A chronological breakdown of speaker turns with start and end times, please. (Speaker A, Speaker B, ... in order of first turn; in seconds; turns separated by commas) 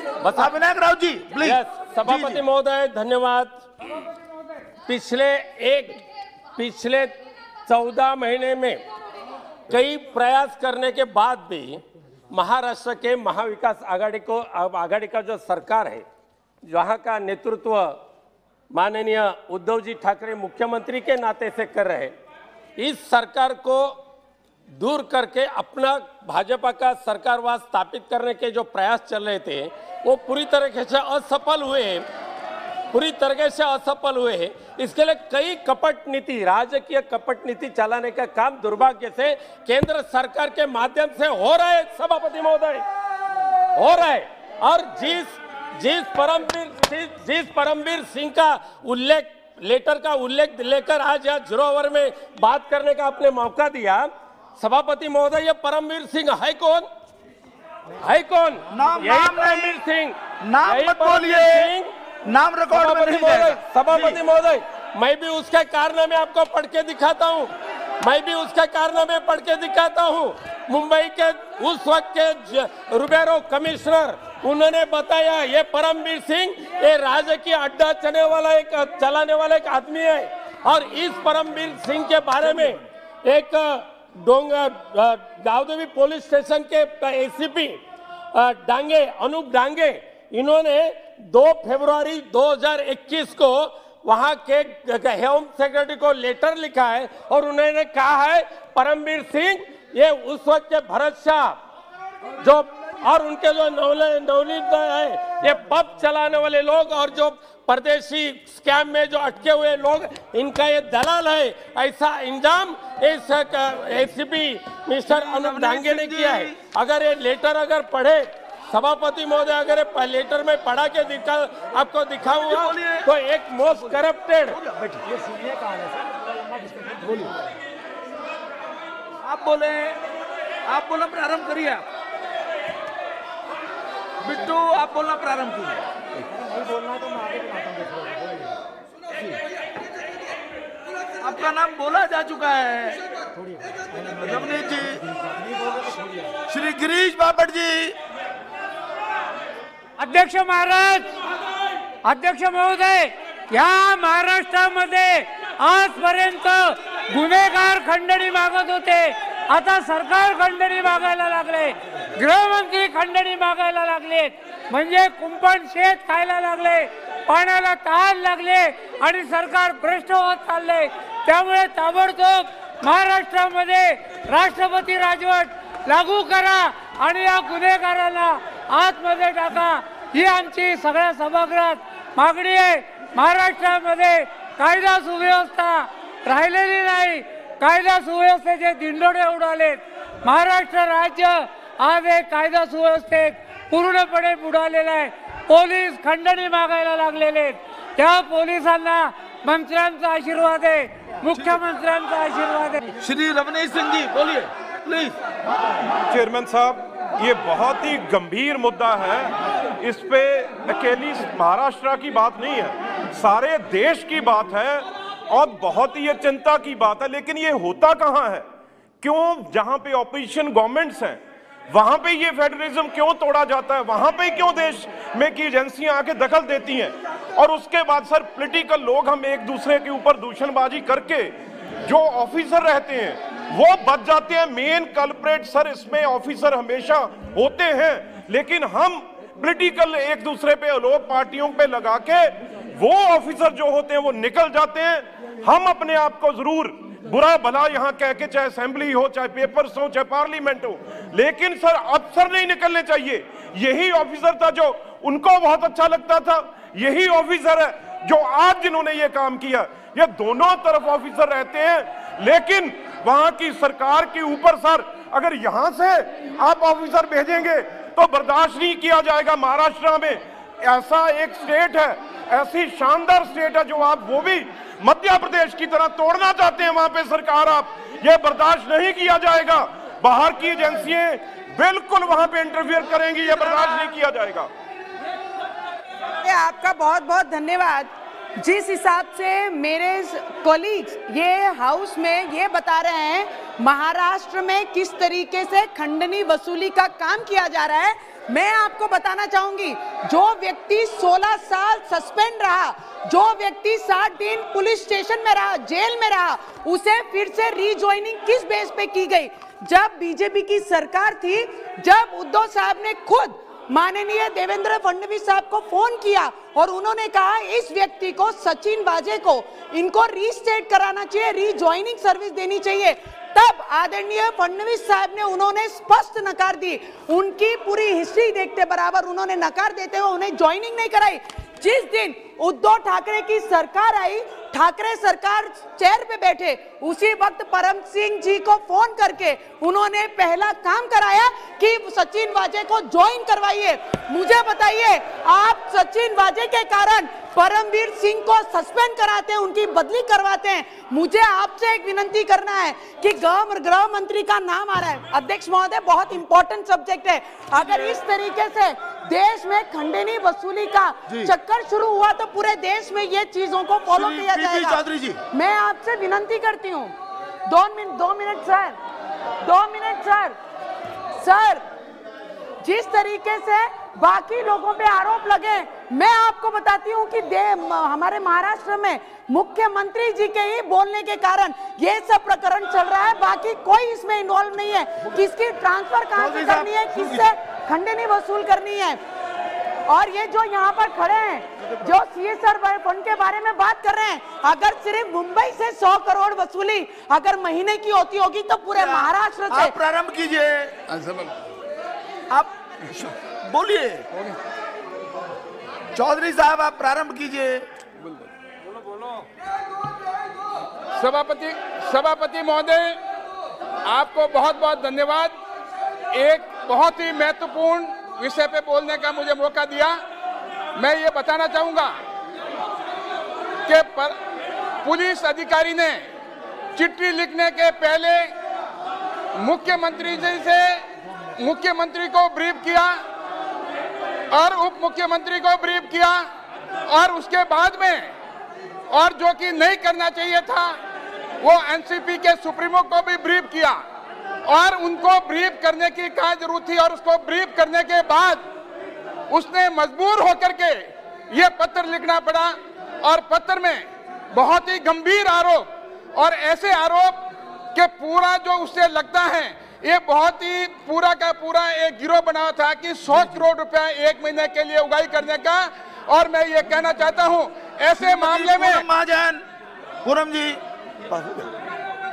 Speaker A: 0.2-0.7, Speaker B: 0.3-2.4, Speaker A: 1.4-3.5, Speaker A: 4.9-6.0, Speaker A: 6.6-7.1, Speaker A: 7.7-8.8, Speaker A: 9.7-16.1, Speaker A: 16.7-18.0, Speaker A: 18.7-22.1, Speaker A: 22.8-24.0, Speaker A: 24.8-32.0, Speaker A: 32.9-42.9, Speaker A: 43.8-56.9, Speaker A: 58.0-61.9, Speaker B: 58.7-59.8, Speaker B: 60.4-61.7, Speaker B: 62.2-64.2, Speaker A: 62.7-67.5, Speaker A: 68.0-87.8, Speaker A: 88.3-101.6, Speaker A: 102.4-124.6, Speaker B: 115.1-116.6, Speaker B: 122.3-123.1, Speaker B: 123.7-124.0, Speaker B: 124.5-125.9, Speaker B: 126.6-127.3, Speaker B: 129.2-130.0, Speaker B: 130.7-131.8, Speaker B: 134.2-135.8, Speaker B: 141.2-143.0, Speaker B: 144.1-145.0, Speaker B: 146.5-148.0, Speaker C: 150.0-151.1, Speaker C: 152.0-202.9, Speaker B: 201.3-201.6, Speaker B: 203.0-205.2, Speaker D: 206.1-218.4, Speaker D: 219.0-231.3, Speaker D: 231.8-284.5, Speaker E: 283.5-283.9, Speaker E: 286.2-366.9, Speaker B: 357.6-357.9, Speaker B: 363.9-365.2, Speaker E: 367.5-368.8, Speaker E: 369.4-370.4, Speaker E: 371.2-371.6, Speaker E: 372.6-389.0, Speaker B: 386.1-387.3, Speaker E: 389.9-399.8, Speaker B: 391.6-391.9, Speaker B: 398.7-401.3, Speaker B: 402.3-404.1, Speaker B: 405.9-407.6, Speaker F: 411.0-413.0, Speaker F: 413.9-415.3, Speaker F: 416.1-420.0, Speaker F: 420.8-421.9, Speaker F: 423.7-424.1, Speaker F: 424.8-426.1, Speaker F: 426.8-428.3, Speaker F: 429.4-430.8, Speaker F: 431.4-432.9, Speaker F: 434.3-436.2, Speaker F: 436.9-438.1, Speaker F: 438.9-440.8, Speaker F: 441.4-443.8, Speaker F: 444.5-448.4, Speaker F: 449.3-457.2, Speaker F: 457.7-468.9, Speaker B: 463.1-463.4, Speaker B: 468.0-469.4, Speaker B: 470.0-471.5